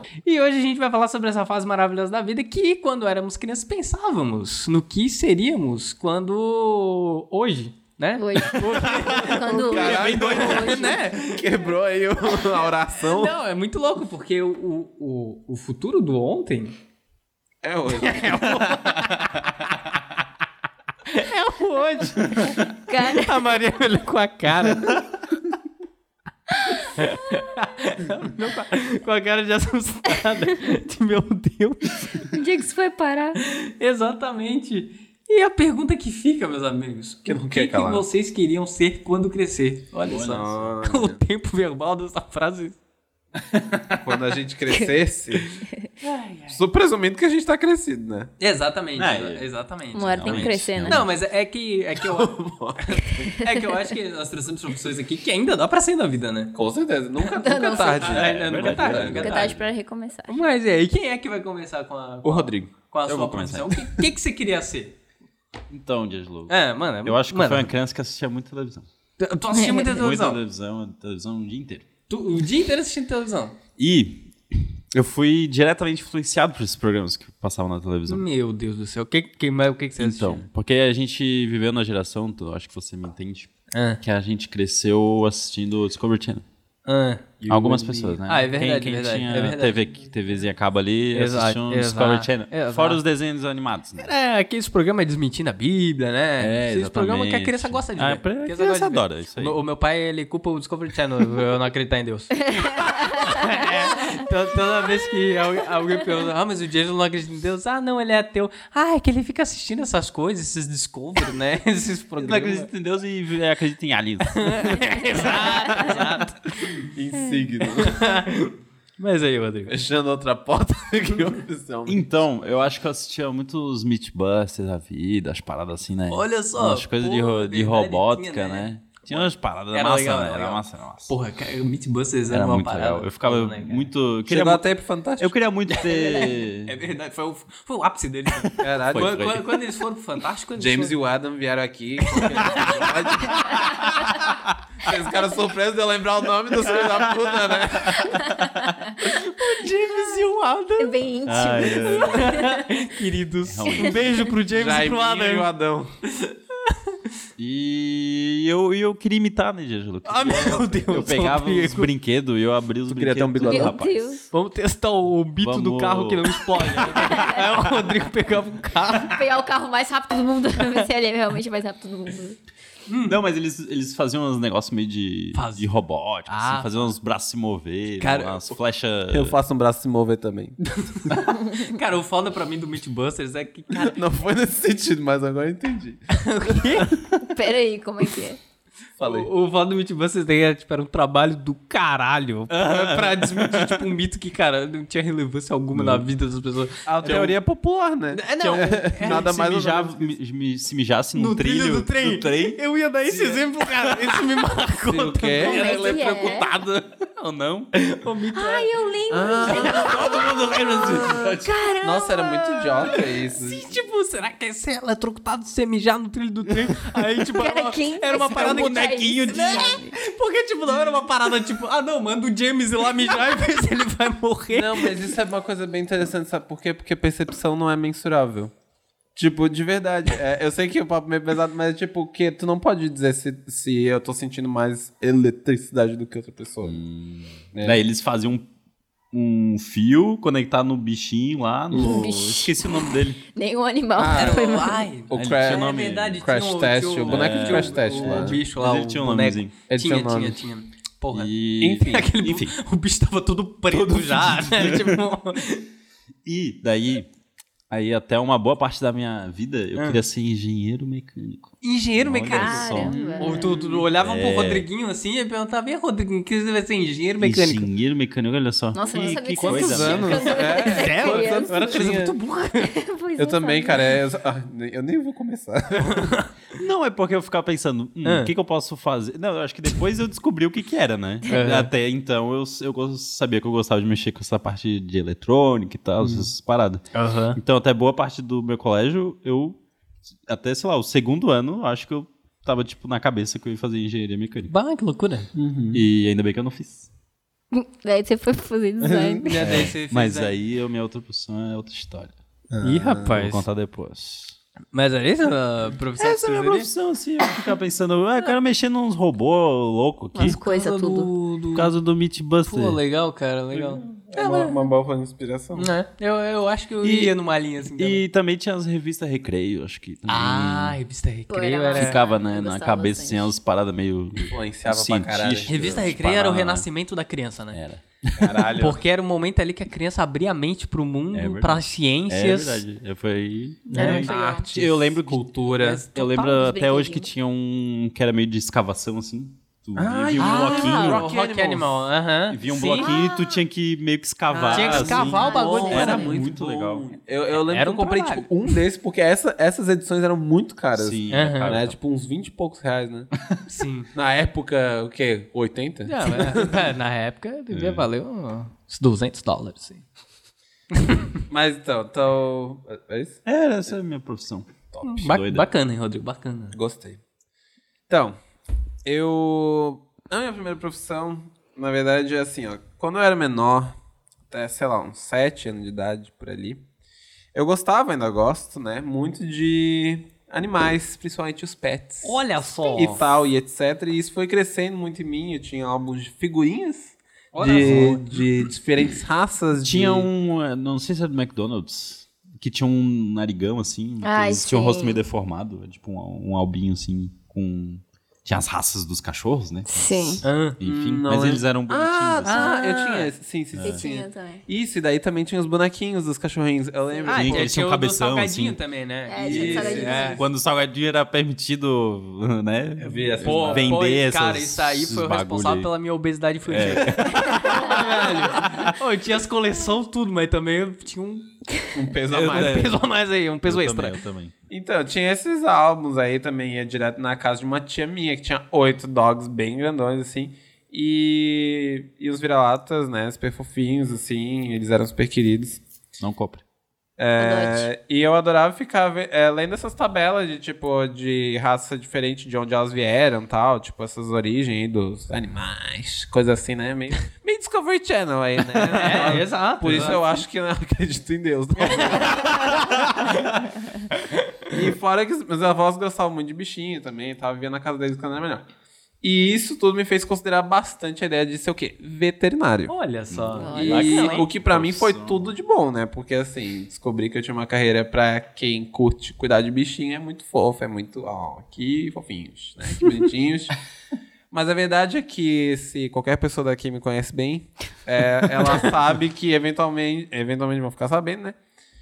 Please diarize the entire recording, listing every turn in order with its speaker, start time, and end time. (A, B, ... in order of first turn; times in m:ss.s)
0:00.2-0:11.5 A
0:08.2-0:11.1 B
0:09.1-0:13.4 C
0:12.9-0:16.8 A
0:17.6-0:18.8 C
0:17.9-0:19.7 A
0:21.1-0:25.0 A
0:22.9-0:23.4 B
0:26.8-0:32.3 A
0:32.3-0:33.4 B
0:33.4-0:42.8 A
0:37.3-0:38.1 C
0:40.1-0:40.7 D
0:40.3-0:41.2 C
0:43.4-0:44.2 D
0:44.0-0:45.6 C
0:46.0-0:46.6 A
0:46.5-0:48.3 C
0:48.4-0:56.6 A
0:49.0-0:51.1 D
0:49.9-0:51.1 B
0:52.0-0:53.3 C
0:56.5-0:59.3 C
0:57.3-0:58.1 B
0:57.5-0:59.5 A
0:58.0-0:59.7 D
0:59.0-1:00.4 B
1:00.3-1:05.0 A
1:02.2-1:02.7 C
1:03.1-1:03.7 D
1:05.7-1:08.9 D
1:06.5-1:07.7 A
1:09.2-1:10.4 A
1:09.6-1:09.9 B
1:09.8-1:11.9 D
1:12.1-1:13.6 A
1:13.8-1:18.2 D
1:18.1-1:20.4 A
1:20.0-1:26.4 D
1:23.7-1:24.0 A
1:26.8-1:27.4 A
1:27.4-1:28.2 C
1:27.5-1:34.1 D
1:28.3-1:29.8 A
1:31.1-1:33.0 A
1:34.0-1:52.7 A
1:36.4-1:39.6 D
1:42.5-1:43.5 B
1:52.2-1:55.8 D
1:54.3-1:56.7 A
1:56.8-1:58.2 C
1:57.8-1:59.8 A
1:59.7-2:02.1 C
2:01.9-2:11.1 D
2:06.1-2:13.9 A
2:12.3-2:14.7 D
2:14.3-2:15.4 C
2:15.2-2:16.8 D
2:15.7-2:21.0 A
2:18.4-2:19.6 D
2:18.6-2:19.3 C
2:20.6-2:24.1 C
2:22.1-2:22.9 A
2:23.5-2:24.3 D
2:24.8-2:28.2 C
2:26.9-2:28.8 D
2:28.2-2:28.9 B
2:29.0-2:35.5 A
2:30.8-2:32.7 B
2:31.3-2:32.4 D
2:33.4-2:34.3 D
2:34.5-2:36.0 C
2:36.1-2:37.0 A
2:37.4-2:44.2 D
2:40.0-2:41.9 A
2:42.9-2:43.8 C
2:43.4-2:44.2 B
2:44.3-2:49.2 A
2:45.4-2:47.2 D
2:47.1-2:47.4 B
2:49.0-2:52.4 B
2:52.9-2:53.2 A
2:53.1-2:59.4 D
2:55.3-2:55.7 A
2:56.3-2:56.9 A
2:58.0-2:58.5 A
2:59.1-3:00.6 C
3:00.7-3:04.0 A
3:03.8-3:06.9 C
3:06.1-3:07.0 A
3:07.2-3:08.4 B
3:09.0-3:09.3 C
3:09.0-3:17.4 A
3:12.5-3:13.9 D
3:15.7-3:16.1 D
3:16.9-3:20.1 C
3:18.1-3:19.3 A
3:19.0-3:24.2 D
3:21.2-3:25.8 A
3:24.9-3:26.6 C
3:25.4-3:26.5 B
3:25.5-3:27.7 D
3:27.7-3:28.7 A
3:28.4-3:30.3 B
3:29.1-3:30.2 C
3:29.4-3:45.0 A
3:29.5-3:31.5 D
3:30.8-3:33.8 C
3:31.5-3:32.2 B
3:37.4-3:40.0 B
3:38.3-3:39.8 D
3:44.5-3:48.5 C
3:49.2-3:56.8 C
3:56.6-3:58.5 D
3:57.5-3:57.8 C
3:59.1-4:03.2 D
4:01.7-4:04.9 B
4:01.8-4:02.0 C
4:04.0-4:08.4 C
4:04.1-4:15.7 A
4:05.1-4:06.4 D
4:07.0-4:09.6 D
4:09.7-4:10.4 C
4:11.1-4:12.5 D
4:11.6-4:12.1 C
4:13.7-4:15.0 D
4:16.2-4:17.1 D
4:17.7-4:23.0 D
4:21.6-4:27.7 A
4:22.3-4:23.5 B
4:22.8-4:23.8 C
4:24.0-4:24.7 D
4:27.2-4:30.4 D
4:28.7-4:31.6 B
4:29.4-4:32.2 C
4:29.6-4:32.7 A
4:32.5-4:34.0 B
4:33.2-4:36.2 C
4:35.8-4:36.3 A
4:36.6-4:49.6 D
4:38.0-4:38.3 A
4:41.3-4:41.7 A
4:46.9-4:47.4 A
4:50.3-4:54.5 D
4:54.5-4:55.3 A
4:55.3-4:55.8 C
4:55.7-4:56.9 D
4:57.5-4:59.5 B
4:58.8-4:59.2 C
4:59.2-5:00.4 A
4:59.4-5:02.2 D
5:02.5-5:03.1 C
5:02.6-5:03.4 A
5:03.0-5:04.4 D
5:04.7-5:06.7 A
5:06.0-5:10.4 D
5:10.1-5:11.1 B
5:10.2-5:11.7 A
5:11.6-5:12.8 D
5:12.4-5:14.6 A
5:13.7-5:15.7 C
5:15.6-5:18.0 A
5:16.8-5:17.1 D
5:17.8-5:20.8 D
5:20.1-5:22.0 A
5:21.3-5:23.3 B
5:21.8-5:26.7 D
5:24.3-5:25.8 C
5:25.5-5:27.6 A
5:27.5-5:28.6 D
5:28.2-5:28.8 C
5:28.6-5:32.6 A
5:31.1-5:41.1 D
5:33.7-5:34.5 B
5:33.7-5:35.9 A
5:33.8-5:34.8 C
5:35.9-5:37.1 B
5:39.8-5:41.8 C
5:40.2-5:42.9 A
5:42.3-5:46.9 D
5:42.8-5:43.4 B
5:44.3-5:53.1 C
5:44.5-5:46.1 A
5:44.9-5:46.2 B
5:47.4-5:48.5 A
5:50.7-5:51.8 D
5:51.1-5:51.5 A
5:53.5-5:53.9 A
5:53.9-5:56.7 C
5:55.9-5:59.8 A
5:57.5-5:57.9 D
6:00.7-6:01.1 A
6:01.3-6:03.2 C
6:03.2-6:05.5 D
6:04.8-6:06.6 A
6:06.5-6:07.0 C
6:07.9-6:08.2 C
6:08.8-6:13.8 C
6:14.3-6:16.6 C
6:17.3-6:22.2 C
6:22.0-6:23.0 A
6:22.7-6:30.1 C
6:27.3-6:28.2 A
6:29.6-6:42.5 D
6:34.0-6:35.0 B
6:39.7-6:40.2 B
6:40.2-6:40.6 A
6:40.6-6:47.5 C
6:42.2-6:43.1 A
6:43.5-6:43.8 D
6:43.6-6:44.4 B
6:47.0-6:50.2 A
6:47.1-6:48.6 D
6:49.1-6:50.2 B
6:49.2-6:50.2 C
6:50.1-6:55.7 D
6:52.8-6:53.8 C
6:53.2-7:01.3 A
6:56.4-6:58.7 D
7:01.7-7:02.8 C
7:02.1-7:02.8 D
7:02.1-7:04.0 A
7:03.4-7:04.3 D
7:04.5-7:15.6 C
7:16.0-7:16.4 D
7:17.0-7:33.3 C
7:17.2-7:17.7 B
7:28.7-7:30.0 A
7:31.6-7:33.3 A
7:33.9-7:34.5 A
7:34.5-7:38.5 C
7:39.0-7:42.8 C
7:42.7-7:44.2 A
7:43.1-7:45.4 D
7:43.4-7:44.2 B
7:43.5-7:53.6 C
7:54.3-8:01.4 C